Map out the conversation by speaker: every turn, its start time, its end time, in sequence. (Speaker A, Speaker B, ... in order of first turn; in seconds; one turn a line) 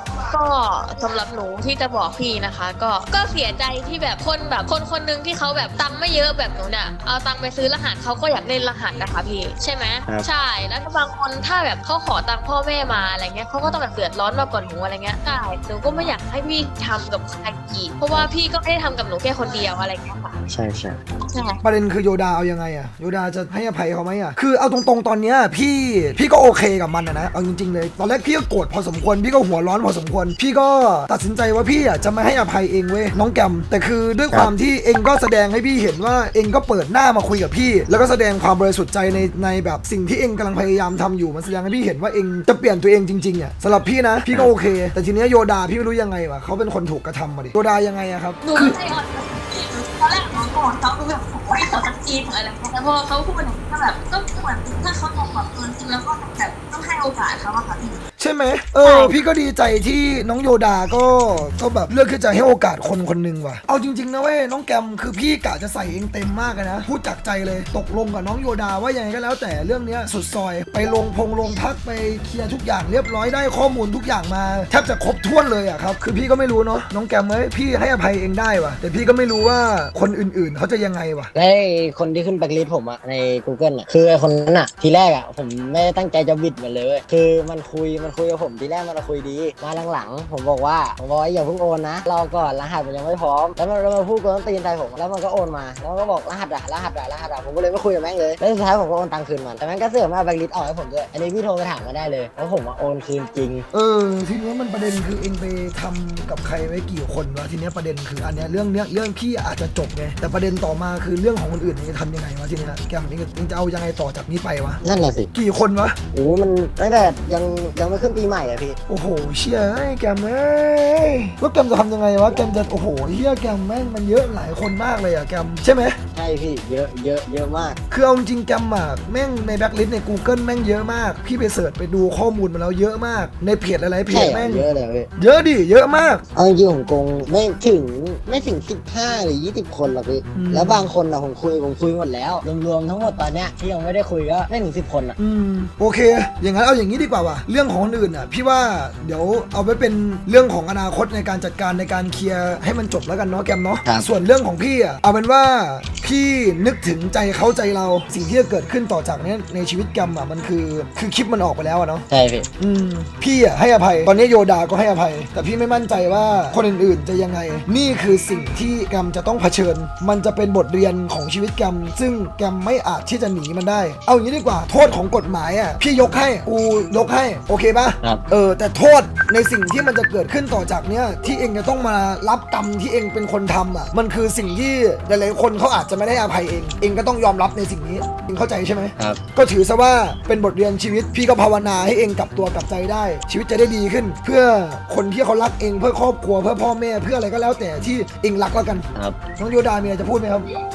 Speaker A: 0.3-20.4
Speaker B: 20.5-21.0
Speaker A: 21.2-21.6
Speaker C: 21.6-48.7
Speaker A: 48.4-58.0
Speaker C: 58.2-81.3
Speaker A: 58.8-59.1
Speaker B: 81.3-103.7
Speaker C: 103.7-114.8
Speaker B: 114.8-115.3
Speaker C: 115.3-116.0
Speaker B: 116.1-118.8
Speaker C: 118.9-126.0
Speaker B: 126.1-127.8
Speaker C: 127.9-136.2
Speaker B: 134.1-135.1
Speaker B: 136.3-145.2
Speaker C: 140.3-140.9
Speaker C: 145.2-162.1
Speaker B: 162.1-162.5
Speaker C: 162.6-200.5